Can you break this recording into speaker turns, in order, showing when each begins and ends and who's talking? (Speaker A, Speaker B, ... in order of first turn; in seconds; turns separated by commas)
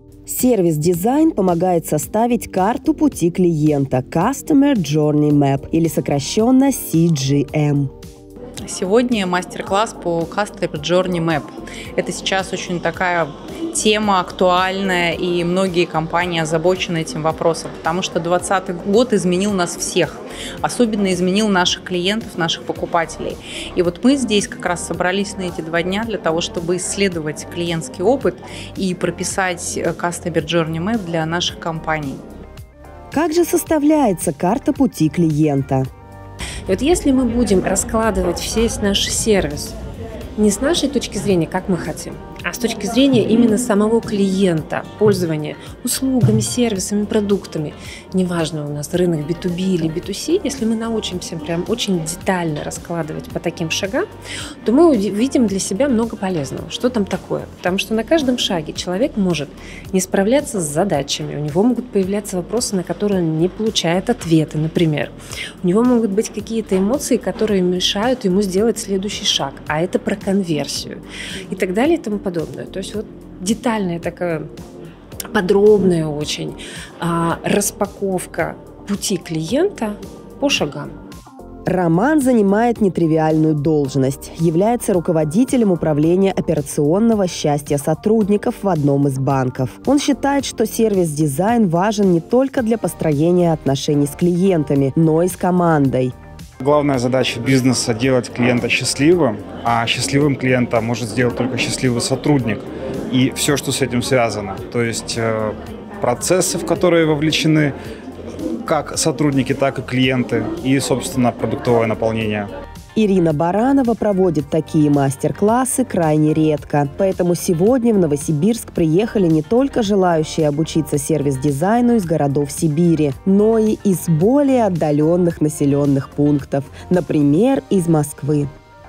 Speaker A: 0.2-7.9, Speaker B: 8.6-32.2, Speaker A: 33.1-35.9, Speaker C: 36.6-39.8, Speaker C: 40.4-54.0, Speaker C: 54.6-74.5, Speaker C: 75.3-80.9, Speaker A: 81.7-96.1, Speaker D: 96.6-107.7, Speaker D: 108.7-112.5, Speaker A: 113.0-128.5